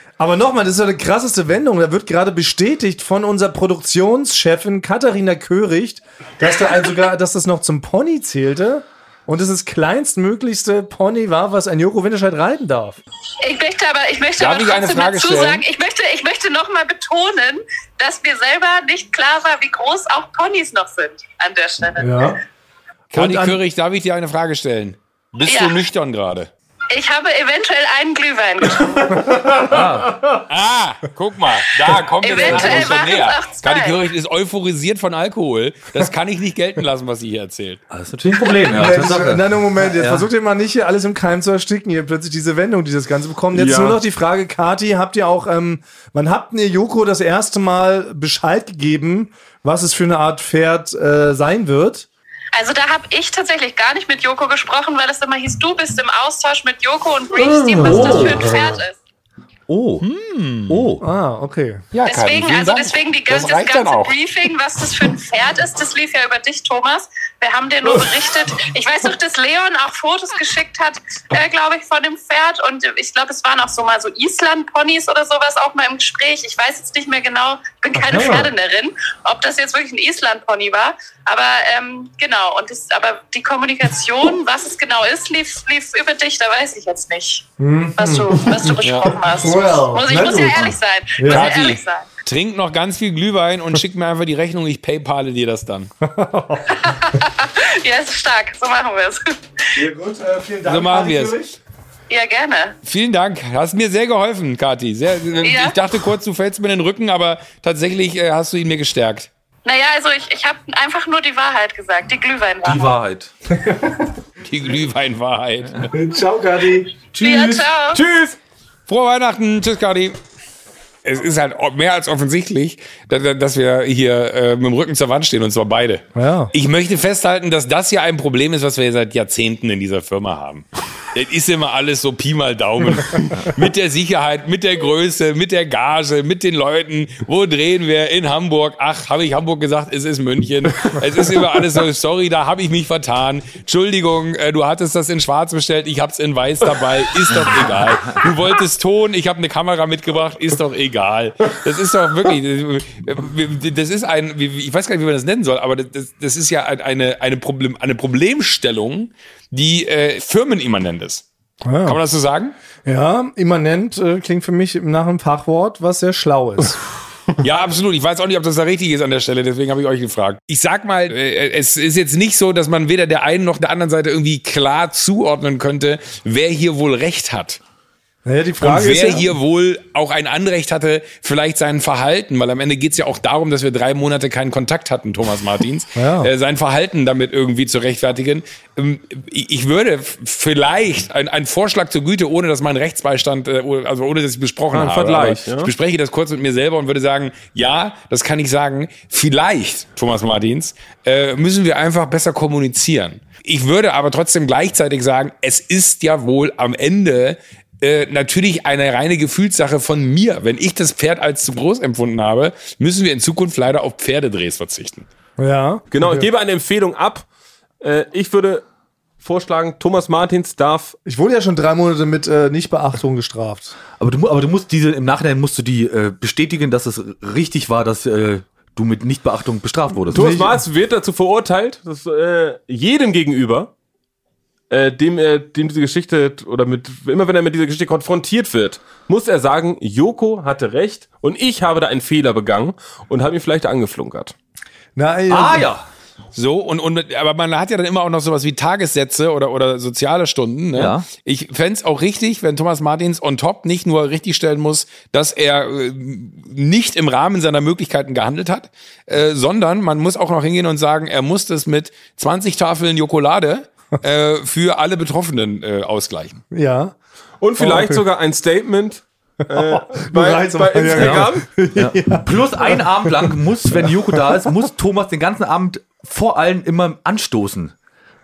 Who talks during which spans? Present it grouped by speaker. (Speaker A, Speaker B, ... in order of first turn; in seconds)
Speaker A: 0.2-13.0, 22.0-22.4, 23.1-23.6, 29.1-29.4, 32.5-32.8, 38.7-52.1, 61.0-61.8, 78.0-78.5, 87.6-88.7, 89.3-90.6, 91.2-91.5, 96.0-96.7, 99.7-101.5, 113.6-113.9, 115.9-116.9, 126.2-126.5, 161.6-162.0, 162.8-166.8, 178.2-179.3, 185.9-186.3, 215.4-216.3, 221.1-223.8, 230.1-230.6, 244.9-245.7, 266.5-266.9, 267.6-268.0, 269.4-274.7
Speaker B: 13.4-22.3, 25.5-25.8, 26.9-29.0, 32.2-34.0, 52.5-59.0, 62.0-92.1, 96.7-99.3, 102.1-102.8, 105.4-105.8, 109.7-112.9, 117.2-118.0
Speaker C: 14.4-15.6, 23.1-26.5, 30.5-37.8, 60.0-60.9, 61.9-64.1, 91.2-95.9, 100.7-101.4, 102.8-109.3, 114.4-115.9, 118.9-120.2, 121.0-161.2, 161.8-162.5, 167.4-177.6, 178.6-215.1, 246.3-266.4
Speaker D: 29.2-29.5, 43.5-44.0, 57.4-58.4, 118.0-118.3, 194.7-195.7, 215.9-217.2, 217.8-218.6, 219.2-220.9, 230.1-233.7, 234.7-244.3, 267.4-271.5
Speaker E: 29.6-30.2, 37.9-40.3, 57.7-58.5, 59.7-60.0, 60.7-61.0, 112.6-113.3, 117.1-118.0, 147.3-148.2, 224.0-230.3, 245.3-245.9, 250.7-251.1, 270.9-277.7